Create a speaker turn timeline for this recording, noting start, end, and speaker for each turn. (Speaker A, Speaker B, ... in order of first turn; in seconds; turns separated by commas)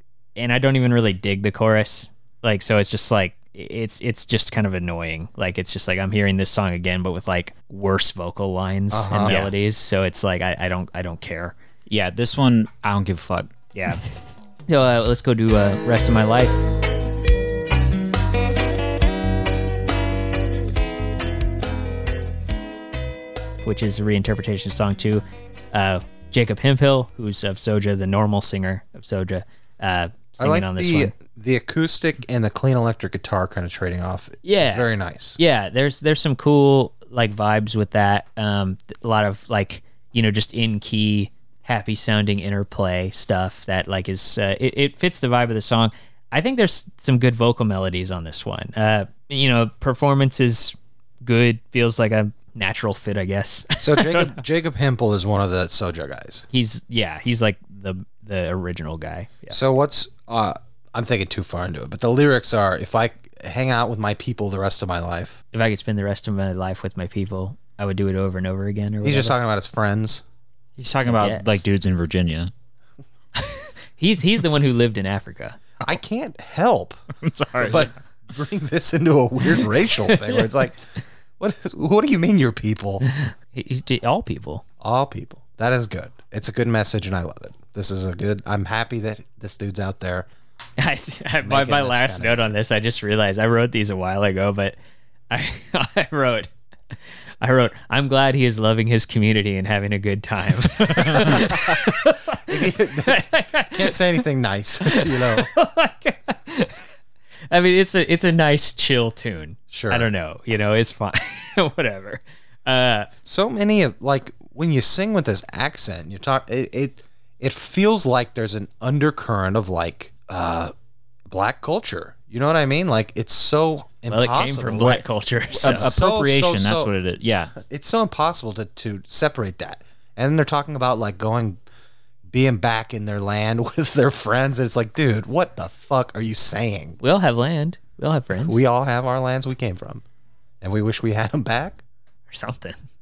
Speaker A: 0.3-11.5, Speaker B: 8.9-9.4, Speaker C: 9.2-9.5, Speaker C: 11.9-13.5, Speaker A: 13.7-14.0, Speaker A: 14.7-16.6, Speaker A: 23.6-31.1, Speaker B: 30.4-35.4, Speaker A: 34.4-54.4, Speaker B: 53.8-56.5, Speaker A: 56.5-59.6, Speaker B: 59.5-65.4, Speaker A: 65.5-69.3, Speaker B: 69.0-70.2, Speaker C: 70.8-72.5, Speaker A: 71.0-71.6, Speaker A: 73.3-75.7, Speaker B: 75.8-77.0, Speaker C: 77.2-77.9, Speaker B: 77.6-80.9, Speaker B: 81.4-83.0, Speaker A: 83.0-84.6, Speaker B: 84.8-90.3, Speaker A: 90.8-94.8, Speaker B: 91.4-92.5, Speaker A: 95.3-96.5, Speaker A: 97.4-104.2, Speaker C: 100.9-101.3, Speaker B: 101.0-105.5, Speaker A: 104.8-106.8, Speaker A: 107.5-113.1, Speaker B: 109.7-110.1, Speaker B: 113.2-120.7, Speaker B: 121.3-125.0, Speaker A: 124.1-125.9, Speaker B: 125.5-126.9, Speaker C: 125.6-127.5, Speaker B: 127.5-131.6, Speaker B: 132.3-137.0, Speaker A: 137.0-138.6, Speaker B: 138.4-140.0, Speaker B: 140.6-141.8, Speaker A: 142.3-142.8